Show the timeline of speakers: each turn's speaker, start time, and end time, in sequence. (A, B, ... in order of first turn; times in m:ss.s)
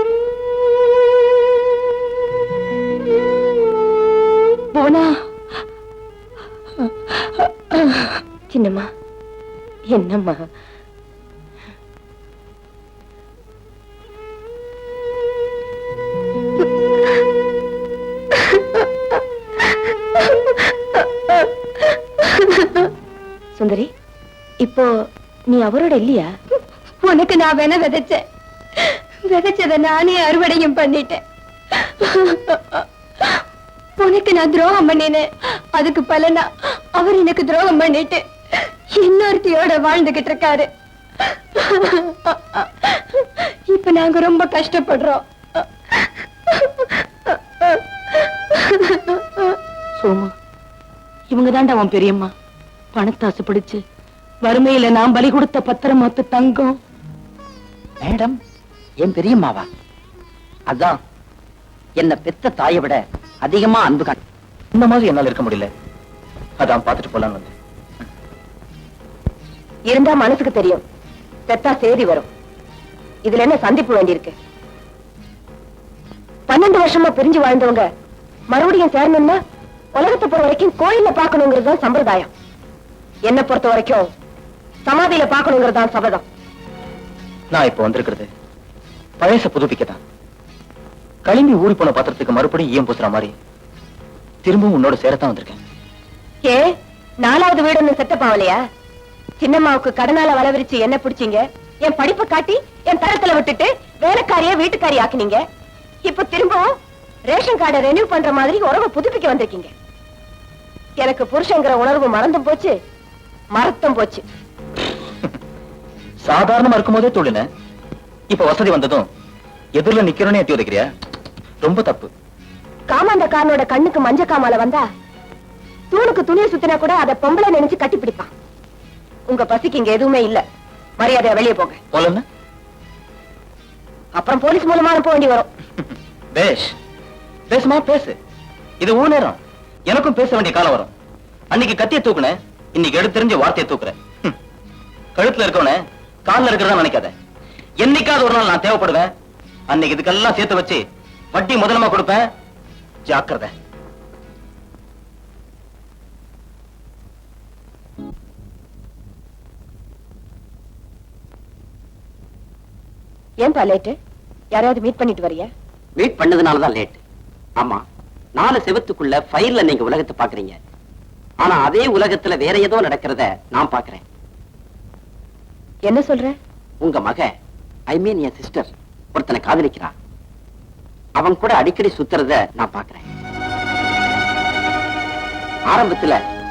0:04.7-0:05.2 A
0:08.5-0:08.9 A
0:09.9-0:10.5 A
0:18.4-0:18.8 B
0:21.3-0:22.9 B
0:23.6-0:23.9 A
0:24.6-0:24.9 A
0:25.5-0:26.3 A
0:27.0-0:28.2 B
0:28.8-0:31.2 B
0:31.8-0:33.4 B
0:34.0-0:38.2 B
0:38.9-0:40.7 B
0:41.6-0:49.6 B
0:50.0-0:50.3 C
0:51.3-0:52.3 C
0:52.9-0:53.8 C
0:54.4-0:56.8 C
0:58.0-0:58.3 D
0:59.0-0:59.6 D
1:02.0-1:04.2 D
1:04.7-1:05.7 E
1:06.6-1:07.5 E
1:09.9-1:10.8 A
1:11.5-1:12.2 A
1:13.2-1:14.3 A
1:16.5-1:17.8 A
1:18.5-1:19.4 A
1:20.0-1:22.3 A
1:23.3-1:24.0 A
1:24.8-1:26.2 A
1:27.5-1:28.3 E
1:29.2-1:30.0 E
1:31.2-1:33.3 E
1:34.4-1:35.6 E
1:37.2-1:38.6 A
1:39.4-1:45.4 A
1:46.0-1:46.7 A
1:47.3-1:49.7 A
1:51.0-1:52.7 A
1:53.6-1:54.2 A
1:56.2-1:57.4 E
1:58.3-1:59.0 E
1:59.8-2:00.9 E
2:01.6-2:02.1 E
2:02.9-2:04.8 A
2:05.9-2:08.3 A
2:09.3-2:10.4 A
2:11.0-2:11.8 A
2:11.9-2:12.2 E
2:14.1-2:15.5 A
2:16.3-2:16.7 E
2:17.5-2:18.2 E
2:18.8-2:19.4 E
2:19.9-2:20.9 E
2:21.5-2:24.3 E
2:25.2-2:27.1 E
2:27.8-2:29.1 E
2:29.7-2:30.8 E
2:31.3-2:32.2 E
2:33.1-2:33.5 E
2:43.4-2:43.9 A
2:44.5-2:45.5 A
2:46.0-2:47.0 D
2:48.4-2:50.6 D
2:51.4-2:54.0 D
2:55.9-2:56.3 A
2:56.8-2:57.3 D
2:57.9-2:59.9 D
3:01.2-3:03.0 D
3:05.7-3:06.2 D